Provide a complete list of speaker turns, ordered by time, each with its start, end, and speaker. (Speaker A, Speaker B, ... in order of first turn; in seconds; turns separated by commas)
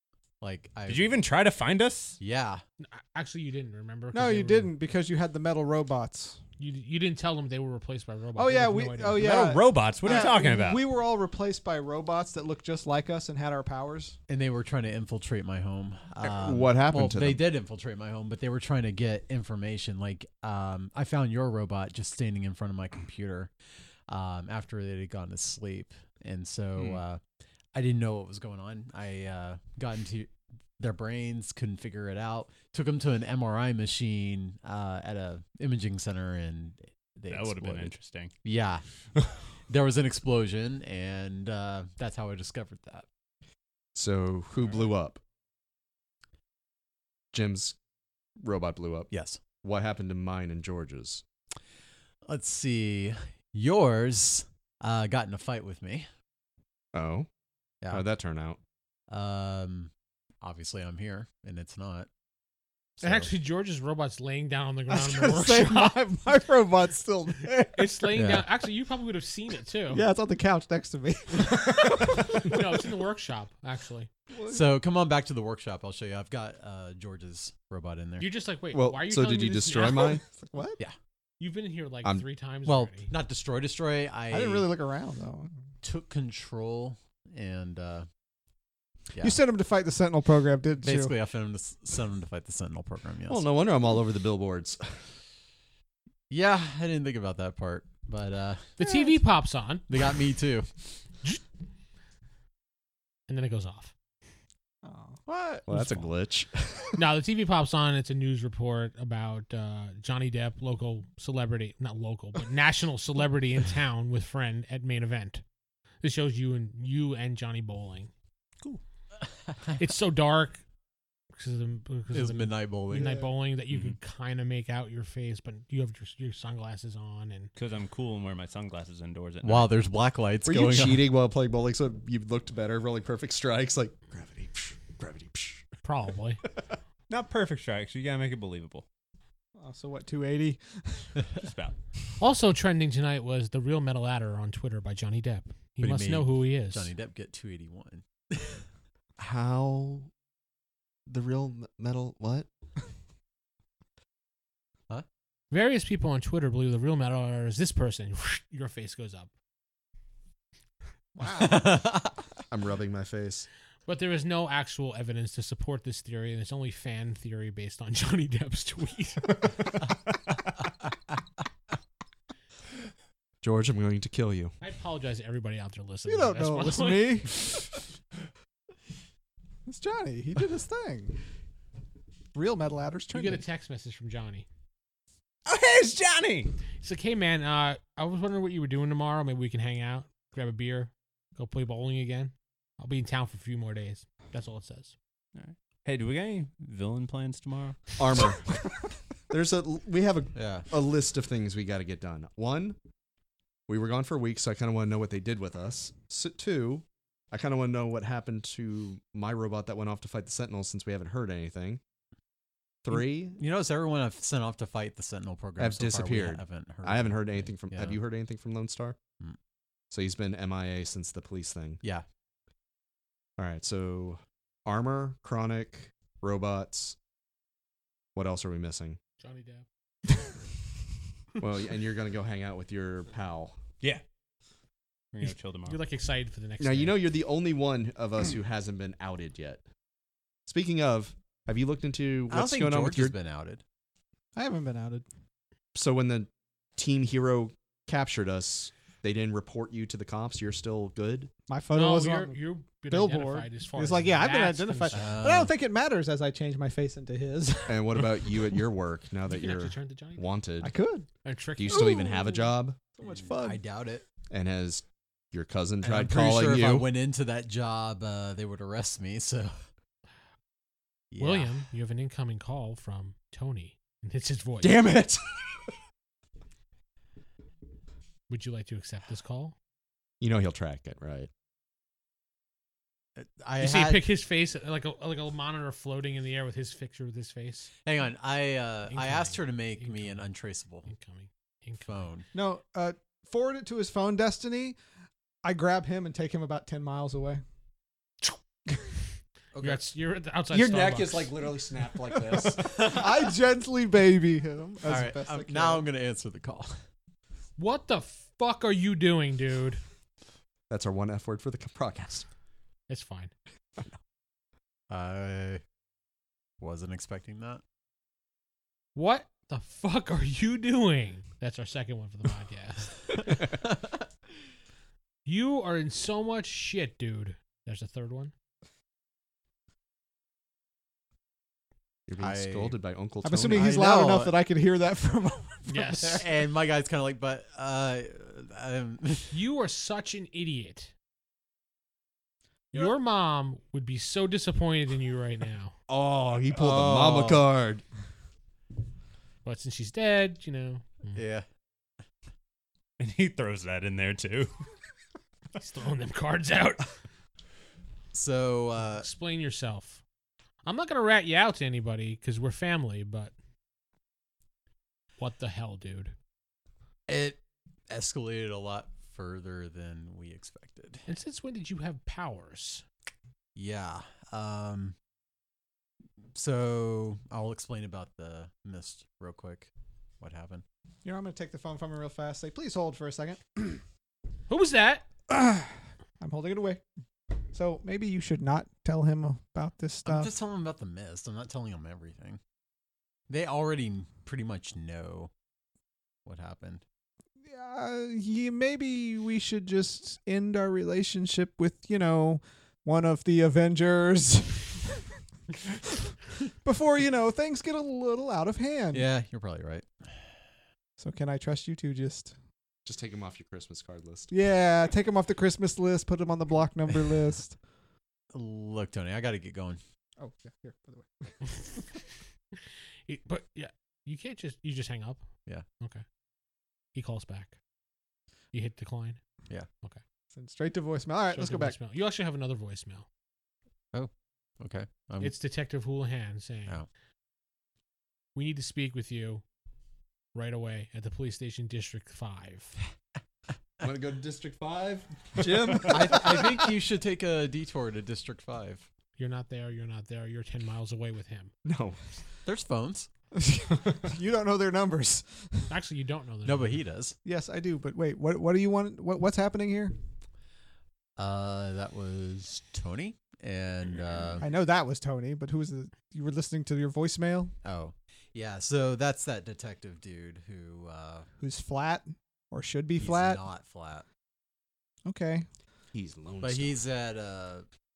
Speaker A: 0.4-1.2, Speaker B: 0.9-2.2, Speaker A: 2.2-2.6, Speaker C: 2.8-4.7, Speaker D: 4.1-6.4, Speaker C: 6.6-9.3, Speaker D: 8.3-14.2, Speaker B: 9.2-10.8, Speaker A: 14.3-23.5, Speaker E: 16.2-17.4, Speaker A: 24.1-27.2, Speaker A: 27.7-38.8, Speaker B: 37.3-38.3, Speaker A: 39.7-43.0, Speaker E: 43.9-45.2, Speaker E: 47.3-47.8, Speaker E: 48.4-51.2, Speaker A: 49.1-49.4, Speaker A: 52.2-56.1, Speaker E: 56.9-57.3, Speaker E: 57.9-58.6, Speaker A: 59.1-62.1, Speaker A: 63.0-63.3, Speaker C: 63.0-66.0, Speaker D: 64.9-68.1, Speaker C: 67.7-70.0, Speaker A: 68.1-68.5, Speaker D: 69.9-72.6, Speaker C: 71.4-74.1, Speaker D: 74.3-74.8, Speaker A: 74.5-78.3, Speaker C: 78.2-80.2, Speaker E: 78.7-80.2, Speaker D: 80.2-80.8, Speaker C: 81.4-83.1, Speaker A: 82.6-84.7, Speaker D: 84.3-85.5, Speaker A: 85.8-88.0, Speaker A: 89.1-89.4, Speaker D: 89.2-91.1, Speaker A: 90.8-93.4, Speaker E: 93.3-95.0, Speaker A: 96.3-98.8, Speaker C: 98.8-99.9, Speaker D: 98.8-99.1, Speaker A: 99.9-100.8, Speaker C: 103.3-103.9, Speaker D: 104.8-105.2, Speaker A: 105.3-105.8, Speaker E: 105.7-107.0, Speaker C: 107.0-115.4, Speaker C: 116.0-118.1, Speaker C: 119.8-120.6, Speaker C: 121.4-127.5, Speaker A: 122.1-123.2, Speaker D: 122.9-123.3, Speaker B: 127.5-129.7, Speaker A: 129.4-131.0, Speaker E: 130.4-135.6, Speaker C: 135.8-136.4, Speaker B: 137.1-138.8, Speaker D: 139.6-141.2, Speaker B: 141.3-141.8, Speaker C: 142.2-146.9, Speaker A: 145.8-148.6, Speaker E: 149.2-150.1, Speaker E: 151.1-152.5, Speaker C: 155.5-159.3, Speaker D: 161.2-161.8, Speaker A: 161.2-162.2, Speaker E: 162.5-163.5, Speaker C: 163.8-169.4, Speaker E: 173.4-174.5, Speaker C: 174.6-177.3, Speaker D: 176.1-177.7, Speaker D: 179.7-181.2, Speaker D: 182.3-183.4, Speaker C: 183.1-184.5, Speaker B: 185.4-186.5, Speaker C: 186.8-194.9, Speaker B: 195.3-197.9, Speaker E: 198.0-198.6, Speaker E: 199.3-202.8, Speaker A: 200.3-200.7, Speaker E: 203.7-211.8, Speaker E: 212.8-213.4, Speaker A: 212.9-218.0, Speaker E: 215.6-219.0, Speaker E: 219.9-221.8, Speaker E: 223.4-227.0, Speaker E: 228.1-229.0, Speaker C: 229.2-229.6, Speaker E: 231.4-233.6, Speaker B: 235.1-235.8, Speaker C: 235.7-237.0, Speaker E: 236.6-239.6, Speaker E: 240.5-243.1, Speaker A: 242.3-243.6, Speaker D: 244.3-245.0, Speaker E: 245.7-251.3, Speaker D: 251.5-252.4, Speaker C: 251.7-255.1, Speaker D: 252.9-258.4, Speaker A: 254.9-255.5, Speaker E: 257.7-260.7, Speaker C: 259.2-260.3, Speaker D: 260.6-261.1, Speaker C: 261.2-262.2, Speaker E: 261.6-262.8, Speaker D: 261.7-262.4, Speaker D: 263.0-263.6, Speaker A: 263.1-264.0, Speaker E: 264.3-266.9, Speaker A: 265.8-269.5, Speaker A: 271.1-271.7, Speaker C: 271.2-274.8, Speaker E: 274.6-275.6, Speaker C: 278.3-279.5, Speaker E: 280.2-281.3, Speaker A: 283.1-284.1, Speaker C: 283.6-287.7, Speaker A: 287.8-290.9, Speaker C: 288.9-290.2, Speaker C: 290.9-292.1, Speaker A: 291.9-292.3, Speaker D: 292.3-294.8, Speaker D: 295.4-297.4, Speaker A: 299.5-299.9, Speaker C: 299.6-301.3, Speaker E: 300.5-302.9, Speaker A: 302.6-302.9, Speaker D: 302.7-305.9, Speaker A: 304.8-306.8, Speaker C: 307.6-309.8, Speaker E: 310.7-312.3, Speaker C: 312.9-313.3, Speaker A: 314.9-315.6, Speaker A: 316.6-317.6, Speaker C: 318.9-323.3, Speaker C: 325.2-328.3, Speaker E: 332.1-333.7, Speaker A: 332.2-332.8, Speaker D: 333.2-336.2, Speaker A: 333.5-334.4, Speaker C: 335.7-336.2, Speaker A: 336.1-339.4, Speaker C: 339.3-340.9, Speaker C: 342.7-345.7, Speaker E: 345.9-347.8, Speaker A: 346.5-347.4, Speaker C: 349.4-351.2, Speaker A: 351.1-351.4, Speaker B: 353.0-354.5, Speaker C: 355.6-356.9, Speaker A: 358.1-359.1, Speaker C: 359.0-360.0, Speaker C: 360.6-363.3, Speaker C: 365.2-366.1, Speaker A: 367.1-371.0, Speaker C: 371.1-372.8, Speaker A: 373.5-374.9, Speaker A: 376.3-380.6, Speaker D: 381.0-383.8, Speaker C: 384.5-385.1, Speaker D: 385.3-386.8, Speaker D: 387.5-390.3, Speaker A: 390.0-392.4, Speaker A: 393.3-395.3, Speaker A: 396.2-396.8, Speaker D: 397.5-404.9, Speaker D: 406.6-409.1, Speaker A: 408.9-410.3, Speaker D: 411.0-412.3, Speaker E: 412.8-414.3, Speaker D: 414.3-417.5, Speaker A: 418.3-419.8, Speaker D: 420.2-421.6, Speaker C: 423.1-426.0, Speaker C: 426.9-427.6, Speaker C: 428.5-429.2, Speaker D: 430.3-431.8, Speaker C: 431.3-433.1, Speaker A: 433.9-435.3, Speaker C: 435.2-436.8, Speaker C: 438.3-439.4, Speaker C: 440.3-442.8, Speaker E: 443.8-446.4, Speaker A: 445.7-448.9, Speaker C: 449.2-451.5, Speaker E: 451.6-452.0, Speaker A: 452.4-453.1, Speaker D: 453.3-455.7, Speaker C: 455.7-456.8, Speaker A: 456.4-457.2, Speaker D: 457.2-459.9, Speaker A: 461.2-464.4, Speaker D: 464.4-467.5, Speaker A: 467.6-471.3, Speaker D: 471.4-473.4, Speaker A: 473.0-474.0, Speaker D: 475.1-475.4, Speaker E: 475.9-476.8, Speaker A: 476.4-477.6